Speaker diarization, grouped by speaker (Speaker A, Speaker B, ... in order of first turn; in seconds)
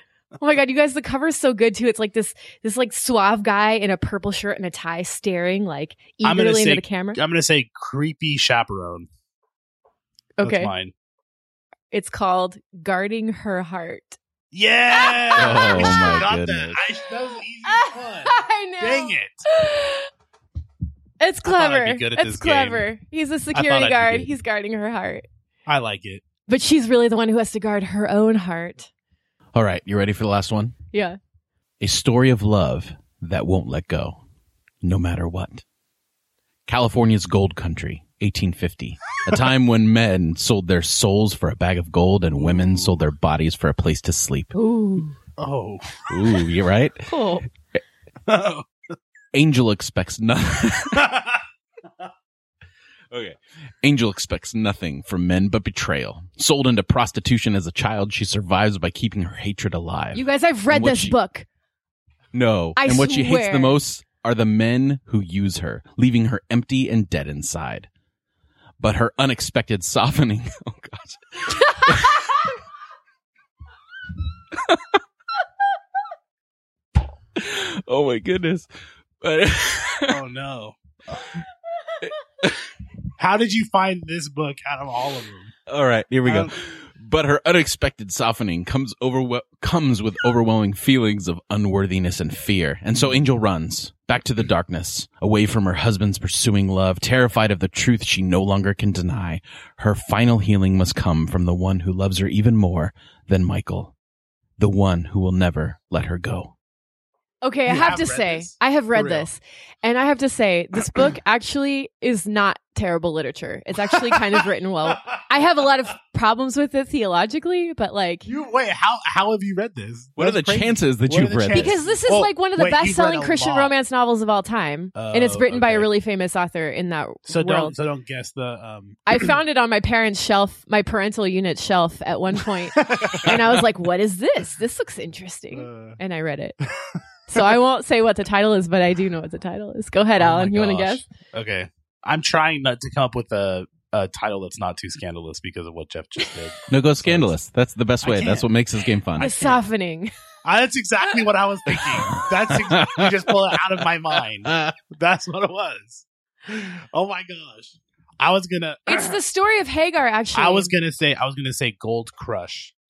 Speaker A: 0.4-7.2, 10.4-10.7, 11.9-14.2, 14.9-16.2, 17.6-20.1, 21.2-25.2, 26.5-28.9, 30.9-31.2, 44.5-45.1, 47.1-47.4, 60.1-61.5, 62.8-63.8, 107.4-118.3, 121.5-127.7, 129.1-136.6, 137.3-141.0, 149.2-150.1, 158.9-160.7
Speaker B: 6.2-9.1, 10.4-10.9, 14.5-19.4, 21.4-22.9, 23.5-24.3, 25.6-26.2, 42.3-43.0, 45.4-46.3, 48.3-48.7, 50.9-51.4, 80.1-81.4, 83.2-85.5, 86.2-86.5, 107.7-109.3, 113.9-115.2, 118.2-123.7, 125.0-125.9, 127.3-129.3, 132.8-133.6, 135.5-136.0, 136.8-137.5, 140.2-147.3, 148.0-148.4, 149.2-149.6, 150.4-159.2, 160.3-162.7
Speaker C: 15.3-16.8, 29.5-30.8, 31.8-34.2, 34.8-35.6, 36.6-44.5, 46.1-47.1, 49.3-51.1, 53.1-61.1, 62.3-67.9, 68.8-72.2, 77.3-78.7, 79.2-80.2, 85.7-103.9, 104.6-106.5, 120.2-121.8, 146.7-149.5, 152.1-153.3, 154.4-154.8